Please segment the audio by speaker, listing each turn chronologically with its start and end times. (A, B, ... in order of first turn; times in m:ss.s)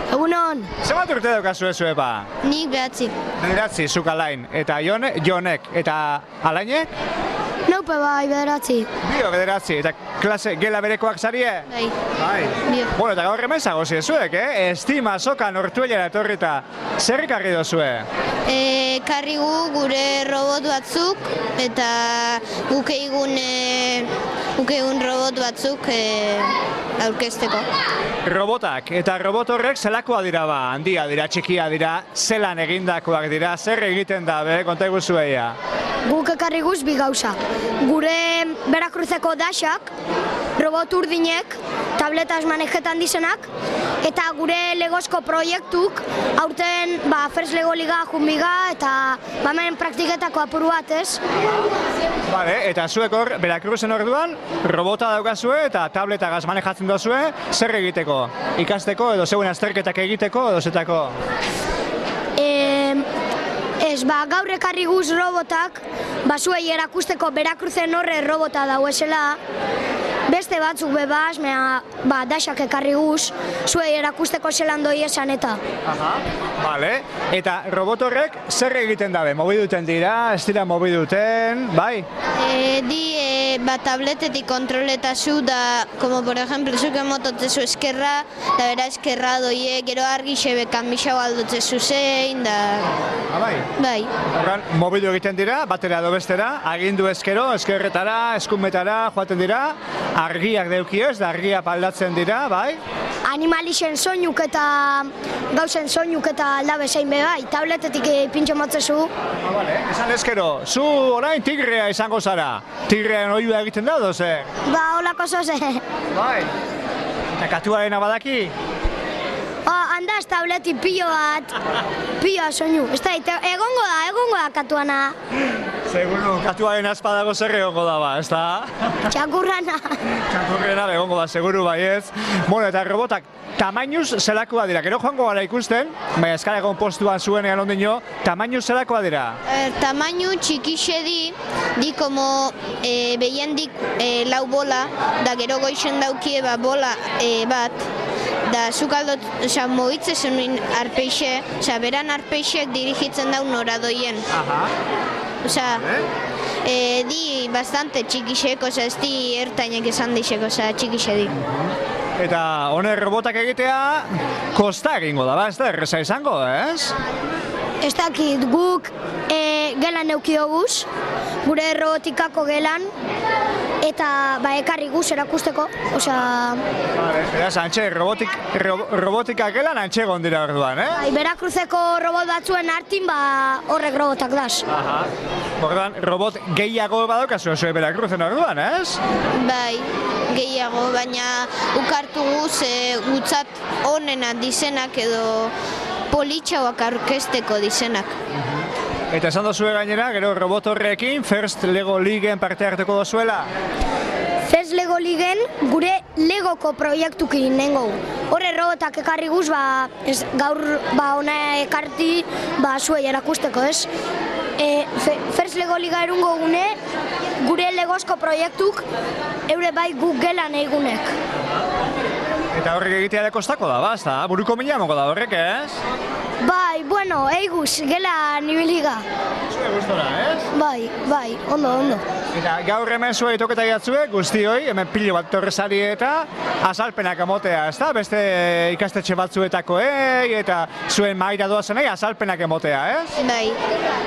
0:00.1-0:00.7 A
0:00.8-0:02.3 B
0:02.4-0:03.2 C
0:03.4-0:06.9 B
0:07.7-0:08.9 A
0:09.0-0:11.7 B
0:11.7-0:12.0 C
0:12.2-0:18.1 B
0:12.7-0:12.9 C
0:18.5-0:27.7 C
0:28.2-0:35.6 B
0:36.1-0:39.9 A
0:40.6-0:43.5 A
0:44.0-0:51.2 A
0:52.3-1:01.2 B
1:02.4-1:03.1 A
1:03.8-1:09.4 A
1:10.3-1:15.6 A
1:15.9-1:22.1 B
1:22.4-1:32.9 C
1:33.3-1:33.7 B
1:33.8-1:34.1 C
1:34.3-1:42.8 B
1:43.3-1:49.1 A
1:49.4-1:54.5 B
1:54.6-1:55.8 A
1:56.1-1:56.5 B
1:57.4-1:58.5 B
1:59.7-2:01.6 A
2:02.2-2:05.2 A
2:05.9-2:09.0 B
2:09.1-2:10.0 A
2:10.2-2:19.4 B
2:19.5-2:27.8 C
2:28.5-2:34.3 C
2:34.3-2:34.7 B
2:35.4-2:35.8 C
2:36.6-2:41.4 C
2:42.2-2:47.0 B
2:47.8-2:50.9 A
2:51.4-2:52.9 A
2:53.8-2:56.6 A
2:57.0-3:01.0 B
3:01.0-3:04.6 A
3:04.7-3:09.0 B
3:09.3-3:15.5 C
3:16.1-3:18.1 C
3:19.1-3:23.5 B
3:24.5-3:33.9 A
3:34.6-3:36.8 A
3:37.4-3:38.8 A
3:39.5-3:41.1 A
3:42.5-3:45.8 B
3:46.4-3:49.0 A
3:49.5-3:50.5 B
3:50.5-3:52.0 A
3:52.3-4:03.2 B
4:03.2-4:03.6 C